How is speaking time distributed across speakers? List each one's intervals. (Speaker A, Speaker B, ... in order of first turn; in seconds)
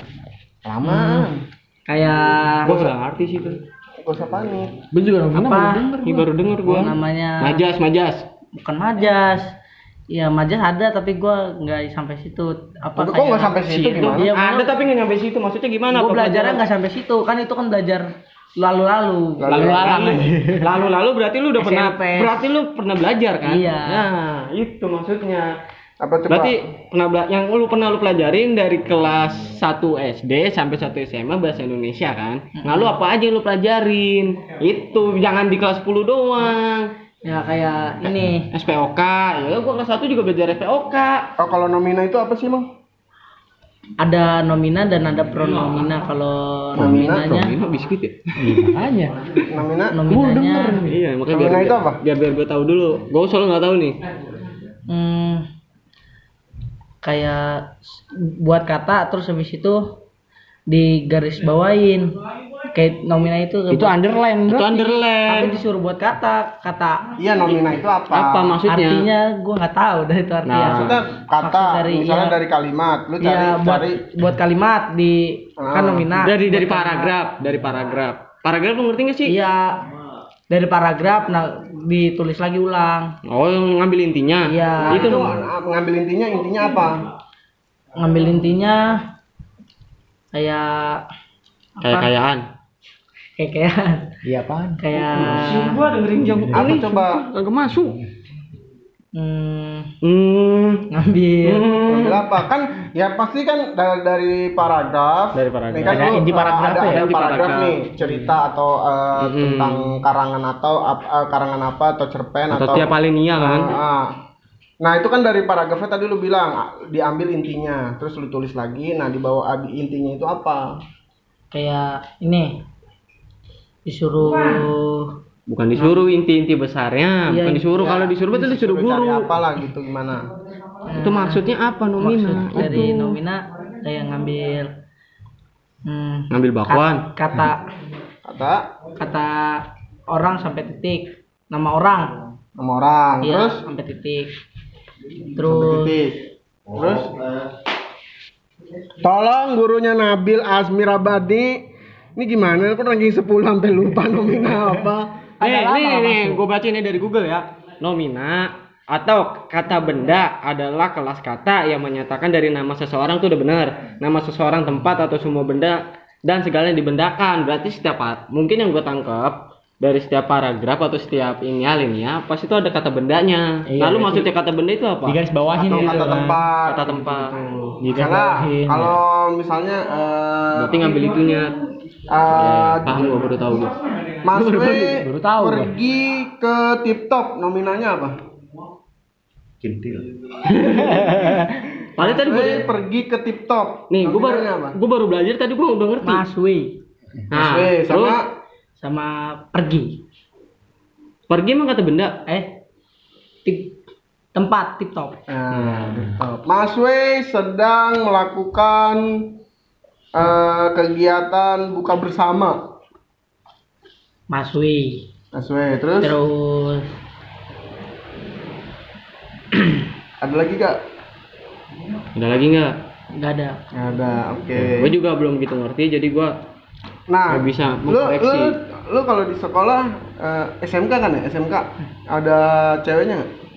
Speaker A: 0.6-1.4, 4.0-4.8, 12.9-14.3, 19.4-20.2, 26.0-26.6, 41.4-42.7, 46.8-47.3, 49.5-50.0, 51.3-52.0, 67.2-68.6, 70.7-74.0, 75.6-76.1, 84.8-87.0, 96.5-97.2, 101.8-114.1, 114.8-120.8, 127.8-130.3, 138.2-138.7, 142.6-143.6, 145.4-146.2, 146.7-147.2, 149.0-151.6, 152.2-155.1, 175.5-180.8, 182.1-183.2, 184.2-188.2, 192.0-194.8, 197.3-198.3, 205.3-209.3, 210.1-212.7, 215.3-216.2, 220.2-220.8, 223.7-224.9, 227.1-233.3
Speaker B: 0.8-1.3, 1.9-2.8, 5.3-5.9, 6.6-7.6, 8.5-9.5, 10.1-14.7, 15.9-20.2, 21.6-22.5, 23.4-24.1, 32.6-32.9, 37.2-38.5, 44.0-47.5, 49.9-50.9, 54.9-55.5, 57.0-60.0, 60.7-62.1, 62.7-63.9, 64.8-67.1, 68.7-72.4, 73.2-77.1, 79.2-79.8, 80.5-83.1, 84.5-85.3, 88.0-89.0, 90.3-91.0, 91.8-92.1, 93.4-94.1, 94.8-95.8, 99.1-99.9, 100.9-101.7, 121.5-122.6, 123.9-125.1, 127.3-127.9, 130.8-131.4, 132.0-134.7, 135.8-137.7, 138.9-142.1, 143.2-144.3, 145.3-145.9, 196.0-196.8, 198.8-200.0, 202.3-202.5, 203.4-203.8, 204.3-205.2, 214.3-215.1, 216.0-216.9, 223.1-223.6
Speaker C: 0.8-1.2, 2.6-3.6, 5.9-8.2, 13.6-16.6, 19.9-25.5, 26.3-36.9, 38.5-41.3, 46.8-48.9, 50.1-54.0, 64.5-65.6, 68.1-69.1, 70.5-71.0, 76.2-79.3, 83.2-85.4, 91.8-92.4, 95.1-98.0, 100.0-100.9, 101.4-102.3, 105.3-107.8, 109.2-109.9, 112.5-113.8, 125.5-129.3, 130.9-133.2, 136.3-137.1, 155.4-177.3, 180.5-181.6, 182.3-185.0, 190.5-191.2, 192.0-192.7, 193.9-196.2, 197.3-198.2, 201.3-202.2, 222.1-222.8, 224.6-226.3, 227.3-228.6
Speaker D: 4.9-6.3, 19.5-20.7, 48.4-49.2, 63.7-64.8, 94.2-94.8, 105.8-107.0, 155.4-156.4, 173.7-174.3, 175.0-176.4, 177.8-179.0, 185.0-185.7, 190.7-191.4